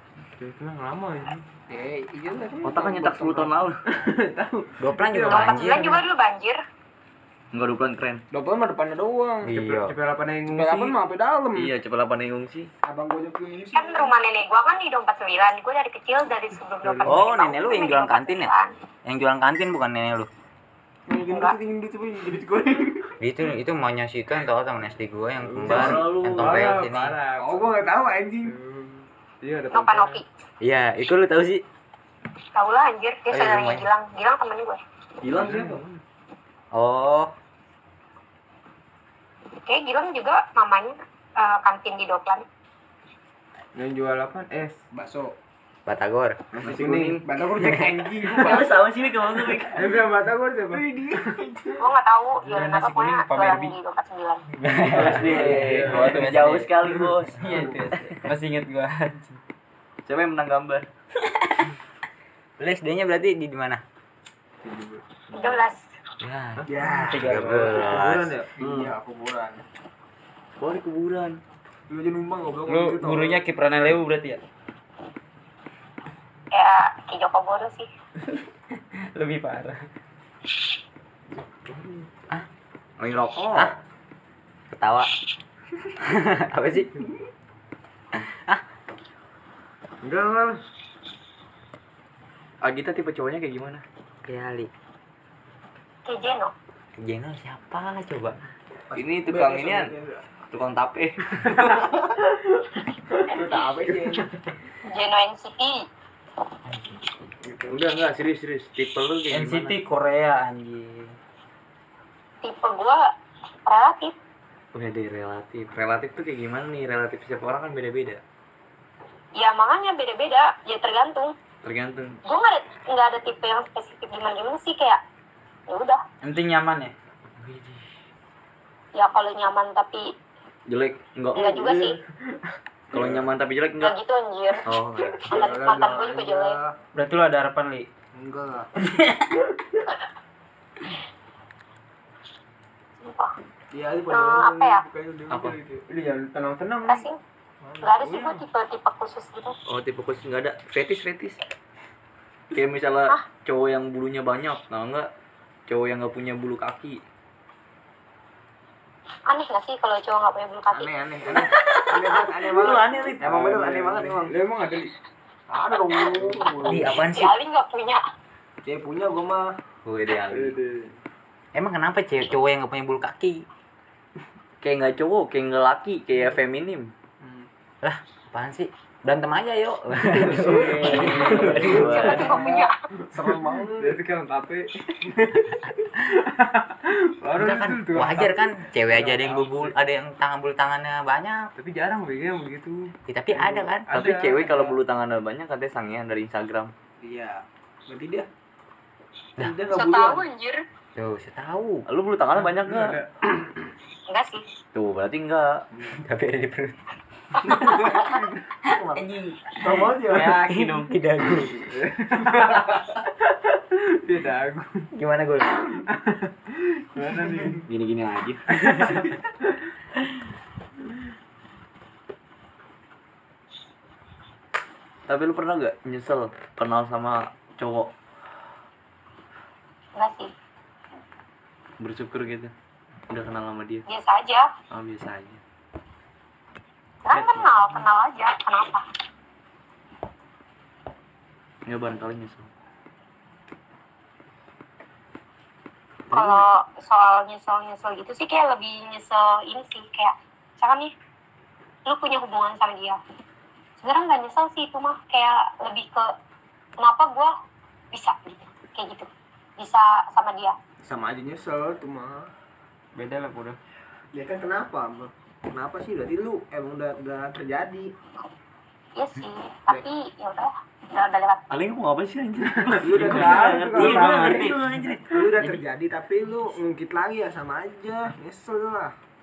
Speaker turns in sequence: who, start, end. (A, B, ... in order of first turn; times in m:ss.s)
0:00.4-0:01.4 A
0:01.7-0:05.5 B
0:02.6-0:03.8 C
0:04.8-0:06.0 D
0:05.2-0:06.6 E
0:07.5-0:08.2 C
0:08.3-0:09.5 B
0:09.4-0:09.9 D
0:09.5-0:11.0 A
0:10.5-0:11.7 B
0:11.5-0:12.7 C
0:12.8-0:14.1 B
0:13.7-0:18.7 E
0:16.8-0:17.2 A
0:17.0-0:18.5 D
0:19.0-0:20.3 D
0:21.1-0:23.1 B
0:21.3-0:21.6 E
0:23.2-0:27.2 D
0:25.4-0:27.7 A
0:25.6-0:26.8 C
0:27.4-0:28.5 B
0:28.4-0:30.2 A
0:29.7-0:30.2 E
0:30.6-0:31.6 D
0:32.6-0:34.8 E
0:33.3-0:33.8 D
0:35.2-0:35.8 C
0:35.3-0:36.0 A
0:36.7-0:37.3 D
0:39.6-0:42.4 E
0:43.7-0:44.8 A
0:44.9-0:45.3 B
0:45.8-0:46.4 D
0:46.6-0:47.2 A
0:46.6-0:47.2 C
0:46.6-0:48.8 B
0:47.6-0:47.9 D
0:48.3-0:49.9 C
0:49.7-0:50.9 A
0:50.7-0:51.8 B
0:51.8-0:54.4 E
0:52.4-0:53.7 F
0:54.6-0:55.6 D
0:54.8-0:57.7 C
0:55.2-0:56.3 A
0:55.2-0:56.7 F
0:57.4-0:59.4 F
1:00.0-1:00.9 C
1:02.6-1:03.8 D
1:04.6-1:05.6 A
1:05.3-1:05.9 E
1:06.2-1:08.4 D
1:06.7-1:07.8 B
1:07.1-1:07.6 F
1:07.2-1:08.5 A
1:08.6-1:09.6 B
1:08.6-1:08.9 C
1:10.6-1:11.4 C
1:11.9-1:13.4 B
1:12.6-1:14.4 F
1:16.5-1:17.9 E
1:18.7-1:19.8 F
1:21.3-1:22.1 A
1:23.0-1:23.7 C
1:24.7-1:25.1 D
1:26.0-1:27.0 D
1:28.1-1:28.6 D
1:30.0-1:30.5 A
1:32.6-1:33.8 C
1:34.2-1:34.7 D
1:36.0-1:36.5 E
1:37.0-1:38.4 D
1:38.9-1:40.2 B
1:38.9-1:39.9 C
1:40.5-1:41.2 C
1:41.4-1:42.3 A
1:41.5-1:41.9 B
1:43.3-1:44.2 B
1:43.8-1:44.3 A
1:44.9-1:45.8 E
1:47.5-1:47.8 A
1:47.7-1:49.8 C
1:49.3-1:51.1 F
1:52.4-1:53.0 E
1:53.7-1:54.1 E
1:54.7-1:58.2 C
1:59.4-2:01.3 E
2:01.6-2:02.2 C
2:02.2-2:05.0 E
2:05.7-2:06.0 E
2:06.2-2:06.9 F
2:07.4-2:07.8 C
2:09.0-2:10.1 E
2:10.7-2:11.6 C
2:11.3-2:12.0 E
2:11.4-2:11.9 A
2:12.9-2:13.9 C
2:12.9-2:13.2 A
2:13.8-2:14.6 E
2:14.6-2:15.3 C
2:15.2-2:16.8 B
2:15.2-2:16.6 E
2:16.9-2:17.9 F
2:18.1-2:18.7 B
2:23.0-2:23.3 E
2:23.7-2:25.6 B
2:24.1-2:24.8 E
2:25.3-2:25.6 C
2:25.3-2:27.0 A
2:26.8-2:27.2 E
2:27.6-2:27.9 B
2:27.8-2:29.6 E
2:28.1-2:28.4 A
2:29.7-2:31.4 C
2:32.5-2:35.1 C
2:35.7-2:37.0 C
2:39.3-2:40.9 E
2:40.7-2:44.4 B
2:41.3-2:43.4 C
2:43.2-2:44.9 A
2:45.5-2:47.0 B
2:46.1-2:46.7 A
2:46.6-2:47.3 D
2:47.1-2:48.0 E
2:48.6-2:49.5 B
2:49.8-2:50.6 C
2:50.3-2:50.9 A
2:51.5-2:53.4 D
2:54.6-2:56.9 C
2:57.2-2:57.5 B
2:57.8-3:02.2 D
3:00.1-3:02.3 A
3:00.4-3:01.9 F
3:00.5-3:04.0 B
3:00.9-3:02.3 C
3:01.6-3:02.7 E
3:03.2-3:09.7 A
3:07.3-3:11.5 D
3:11.6-3:12.9 A
3:13.0-3:13.9 D
3:13.4-3:14.8 A
3:13.9-3:16.7 C
3:17.0-3:18.3 B
3:19.4-3:20.2 B
3:19.7-3:20.6 E
3:21.0-3:21.8 D
3:21.9-3:23.0 C
3:22.3-3:23.3 A
3:24.1-3:24.4 E
3:24.7-3:25.6 C
3:26.0-3:26.8 D
3:27.4-3:29.0 B
3:28.7-3:30.9 F
3:29.6-3:30.4 B
3:30.2-3:31.7 D
3:31.7-3:34.8 A
3:34.9-3:35.8 D
3:35.5-3:37.6 A
3:37.7-3:38.4 C
3:38.5-3:39.3 A
3:45.1-3:47.9 C
3:50.0-3:50.3 E
3:51.8-3:52.5 C
3:53.1-3:53.8 C
3:53.9-3:54.5 E
3:54.7-3:55.4 C
3:57.0-3:58.8 E
4:01.6-4:02.5 C
4:06.1-4:10.9 E
4:11.8-4:13.0 E
4:13.8-4:16.1 E
4:16.8-4:17.3 E
4:17.9-4:20.6 E
4:20.8-4:22.3 B
4:22.9-4:23.6 F
4:24.1-4:27.9 B
4:29.0-4:31.6 E
4:31.5-4:35.5 C
4:32.7-4:34.6 A
4:32.8-4:34.5 B
4:33.0-4:34.5 F
4:35.1-4:38.9 B